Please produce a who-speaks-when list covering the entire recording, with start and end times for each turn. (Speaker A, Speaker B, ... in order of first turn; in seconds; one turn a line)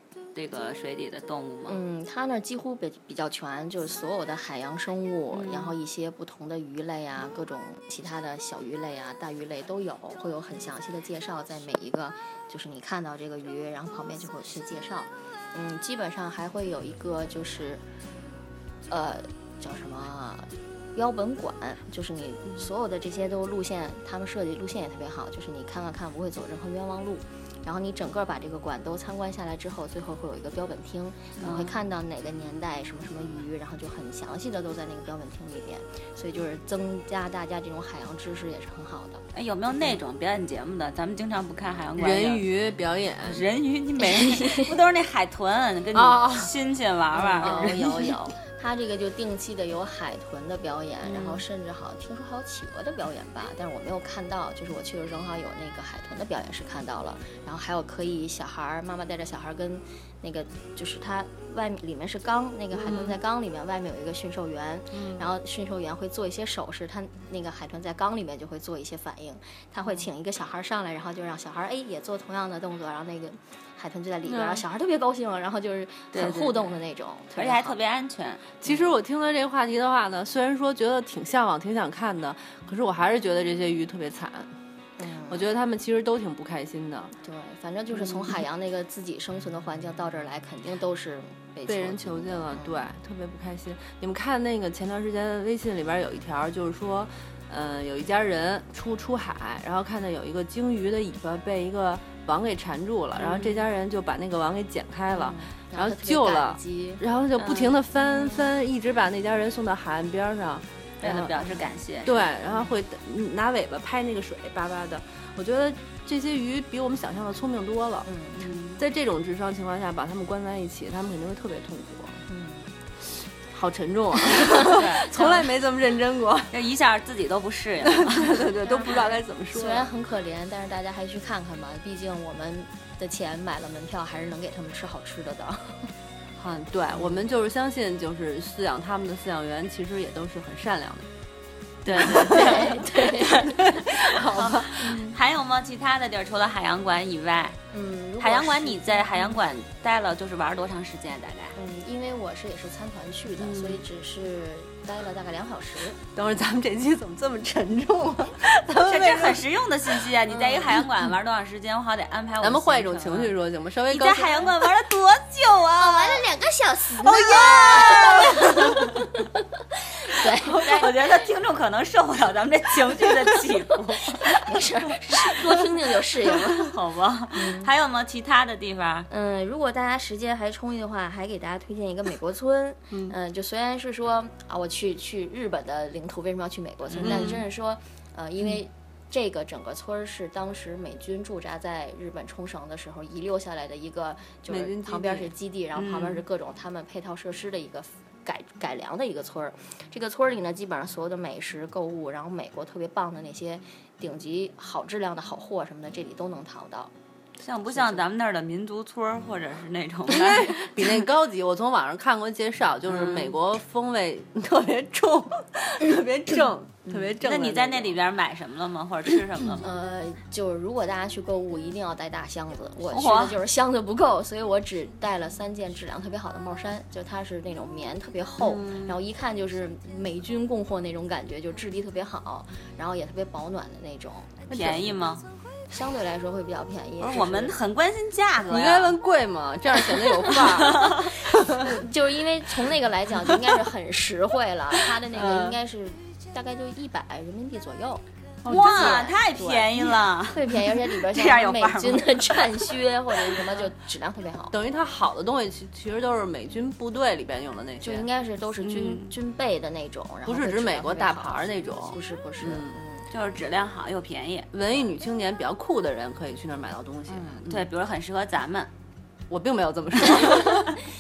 Speaker A: 0.3-1.8
Speaker B: 1.7-17.8
Speaker A: 5.3-5.7
Speaker B: 18.9-39.2
Speaker A: 31.4-31.7
Speaker A: 39.3-42.5
Speaker C: 42.0-43.5
Speaker A: 43.2-47.8
Speaker C: 45.9-46.5
Speaker B: 47.1-77.8
Speaker C: 47.4-48.2
Speaker A: 51.0-51.4
Speaker C: 62.7-63.2
Speaker C: 64.9-65.3
Speaker C: 74.2-74.7
Speaker A: 76.1-76.7
Speaker A: 77.3-78.5
Speaker C: 78.6-84.5
Speaker B: 78.7-78.9
Speaker B: 85.0-85.5
Speaker C: 85.3-87.2
Speaker B: 87.2-92.8
Speaker C: 87.9-88.4
Speaker C: 91.7-111.5
Speaker A: 103.2-103.7
Speaker B: 105.1-107.0
Speaker A: 107.4-107.8
Speaker B: 108.2-108.5
Speaker A: 111.0-112.3
Speaker C: 112.0-118.1
Speaker B: 118.0-118.5
Speaker A: 118.4-118.8
Speaker C: 118.8-122.2
Speaker B: 122.3-122.7
Speaker C: 123.4-126.5
Speaker A: 124.7-125.4
Speaker A: 126.5-128.5
Speaker C: 127.8-129.9
Speaker B: 128.6-135.9
Speaker C: 136.4-141.1
Speaker B: 136.9-137.2
Speaker A: 141.8-147.6
Speaker C: 141.9-144.9
Speaker B: 142.0-143.5
Speaker B: 144.8-145.2
Speaker B: 147.7-149.4
Speaker A: 148.2-151.6
Speaker B: 151.6-156.0
Speaker C: 153.4-153.8
Speaker C: 156.2-159.4
Speaker A: 158.8-163.4
Speaker B: 160.3-160.8
Speaker C: 162.4-164.6
Speaker A: 163.9-166.2
Speaker B: 165.8-169.4
Speaker A: 167.1-168.9
Speaker C: 167.9-168.4
Speaker B: 170.0-171.3
Speaker A: 170.5-174.4
Speaker B: 174.3-176.7
Speaker A: 176.5-179.1
Speaker B: 177.3-177.7
Speaker B: 179.1-206.9
Speaker C: 182.9-183.2
Speaker A: 186.9-187.4
Speaker C: 194.5-195.3
Speaker A: 195.8-196.2
Speaker A: 207.4-210.6
Speaker B: 207.7-208.0
Speaker C: 210.1-218.0
Speaker A: 212.9-213.4
Speaker A: 217.2-219.7
Speaker B: 219.6-234.8
Speaker A: 222.9-223.4
Speaker A: 228.4-229.0
Speaker A: 234.5-235.2
Speaker B: 235.7-237.6
Speaker A: 237.0-239.0
Speaker C: 238.5-241.7
Speaker A: 240.3-241.1
Speaker B: 241.5-254.6
Speaker C: 245.1-245.6
Speaker C: 248.4-249.1
Speaker A: 248.5-252.6
Speaker C: 254.5-258.1
Speaker B: 257.8-263.1
Speaker A: 258.6-259.1
Speaker C: 260.3-262.8
Speaker A: 263.1-264.5
Speaker C: 264.5-267.6
Speaker B: 267.1-267.5
Speaker A: 267.4-268.7
Speaker C: 269.3-270.7